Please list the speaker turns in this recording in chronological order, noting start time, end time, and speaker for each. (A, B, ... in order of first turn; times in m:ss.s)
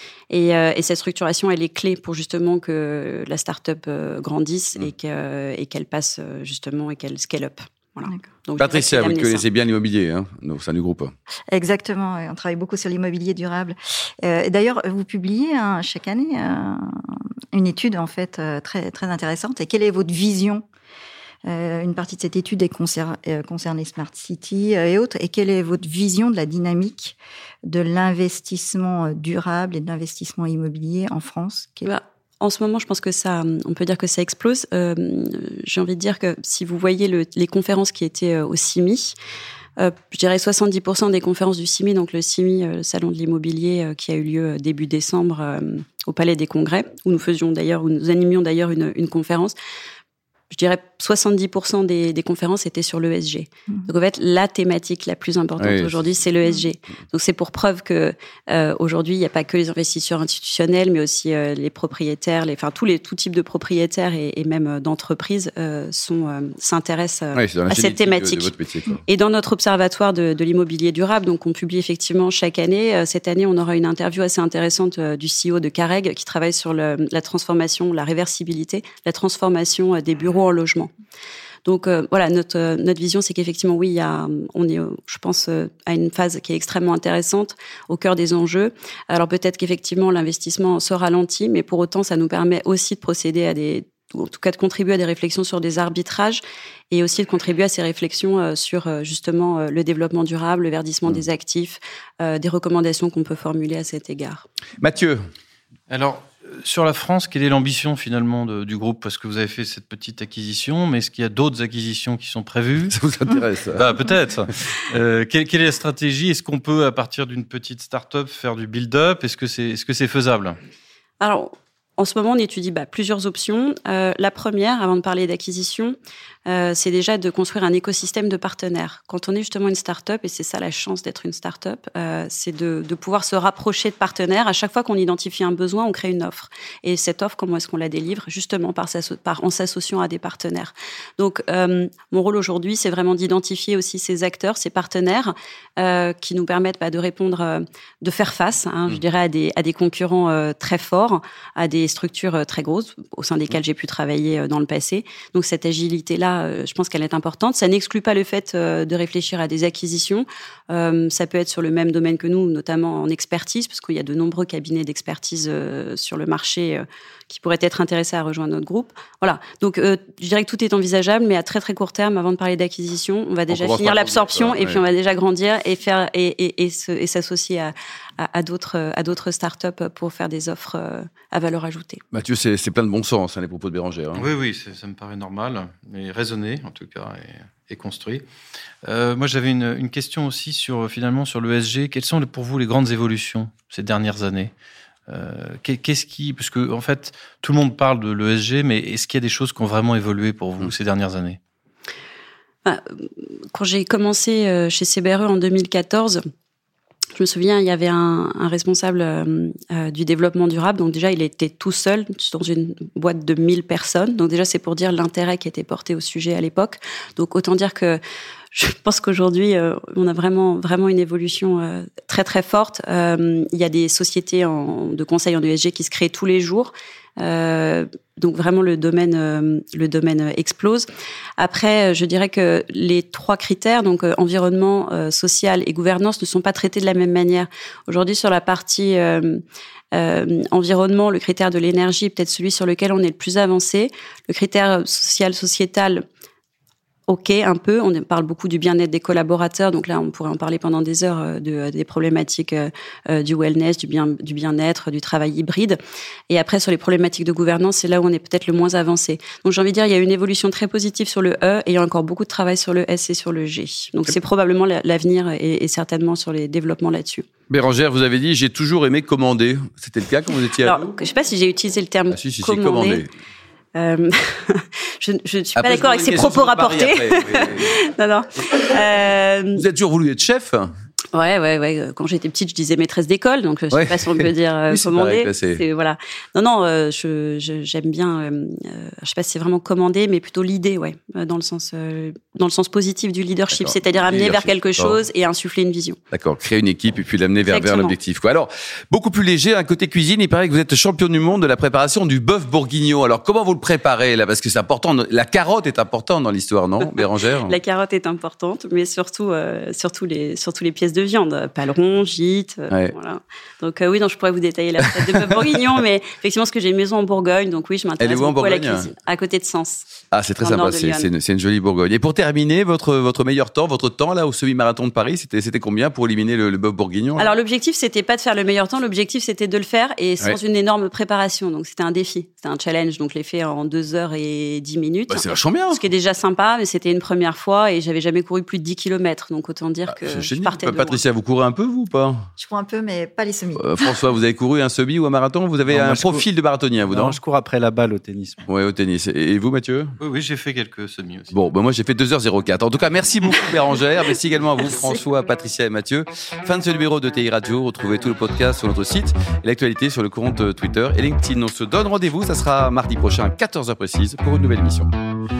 0:00.3-0:09.4 A
0:08.6-0:11.1 B
0:11.5-0:20.6 C
0:21.4-0:31.9 C
0:31.8-0:39.1 A
0:39.8-0:49.6 A
0:50.5-1:08.5 A
0:55.6-0:56.0 B
1:07.3-1:09.0 B
1:09.0-1:20.9 A
1:21.6-1:44.4 A
1:44.8-1:45.2 B
1:45.9-1:53.0 D
1:53.0-1:53.8 B
1:53.7-2:00.6 D
2:01.2-2:05.9 A
2:06.4-3:02.0 A
2:53.5-2:54.8 B
3:02.1-3:04.2 B
3:04.1-3:08.2 D
3:08.8-3:14.5 D
3:15.1-3:21.4 D
3:22.6-3:26.2 A
3:27.1-3:38.0 A
3:38.5-3:50.9 A
3:51.4-4:06.0 A
4:07.1-4:15.8 A
4:16.3-4:27.2 A
4:27.5-4:30.9 B
4:30.6-4:33.0 A
4:32.1-4:33.1 B
4:33.8-4:39.6 A
4:35.6-4:37.7 B
4:39.6-4:40.7 B
4:41.1-4:56.0 A
4:43.7-4:45.6 B
4:53.5-4:55.0 B
4:56.1-5:07.6 B
4:57.5-4:57.9 A
5:07.0-5:19.8 A
5:18.0-5:18.9 B
5:20.1-5:27.3 B
5:20.4-5:21.1 A
5:27.2-5:41.0 A
5:35.1-5:35.8 B
5:39.9-5:42.2 B
5:42.4-5:43.9 C
5:43.6-5:47.2 B
5:45.7-5:46.2 E
5:46.8-5:48.4 E
5:48.5-5:49.9 B
5:50.0-5:51.3 D
5:51.3-6:04.9 B